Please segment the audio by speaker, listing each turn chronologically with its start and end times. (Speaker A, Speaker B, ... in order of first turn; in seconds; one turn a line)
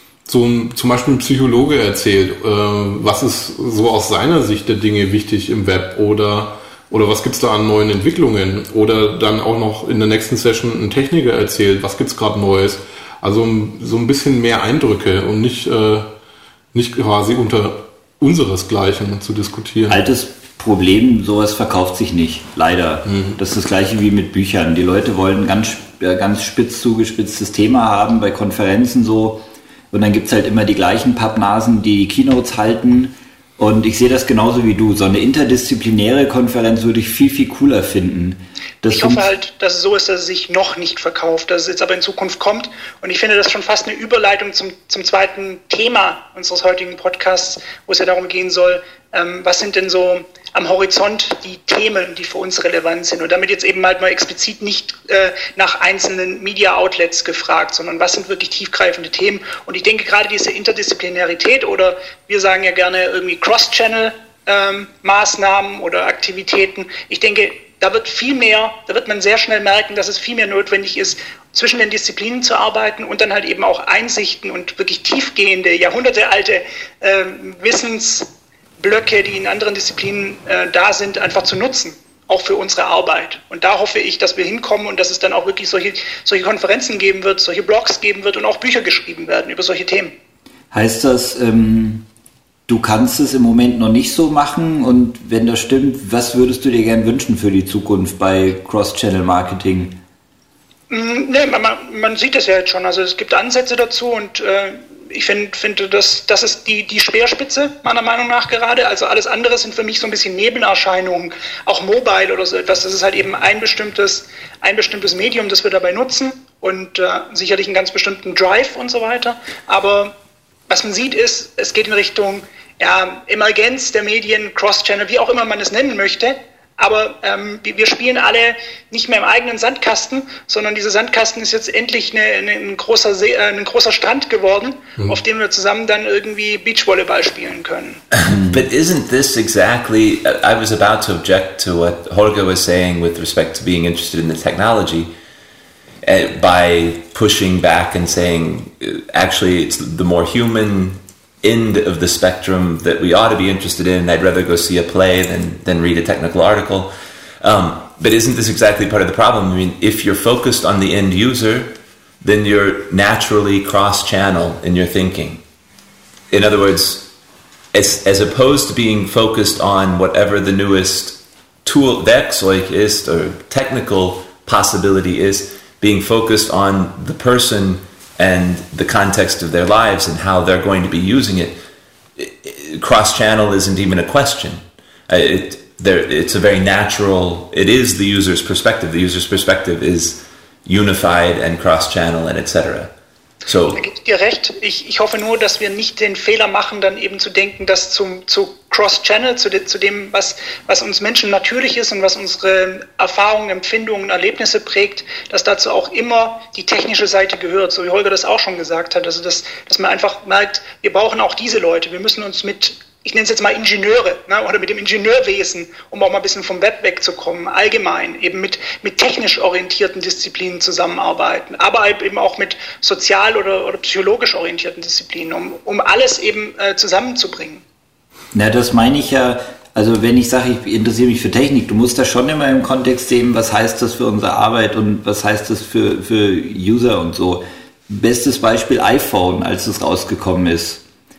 Speaker A: 0.2-16.1
Speaker A: 16.7-20.0
Speaker B: 19.9-39.2
Speaker A: 23.1-23.4
Speaker C: 38.9-90.1
Speaker B: 90.7-92.0
Speaker B: 92.7-100.0
Speaker C: 100.9-120.1
Speaker C: 120.7-138.0
Speaker D: 138.1-145.1
Speaker B: 138.2-138.6
Speaker D: 146.0-165.4
Speaker D: 166.3-167.1
Speaker D: 167.7-181.6
Speaker D: 182.2-192.9
Speaker D: 193.4-193.8
Speaker C: 193.7-227.6
Speaker B: 228.3-240.8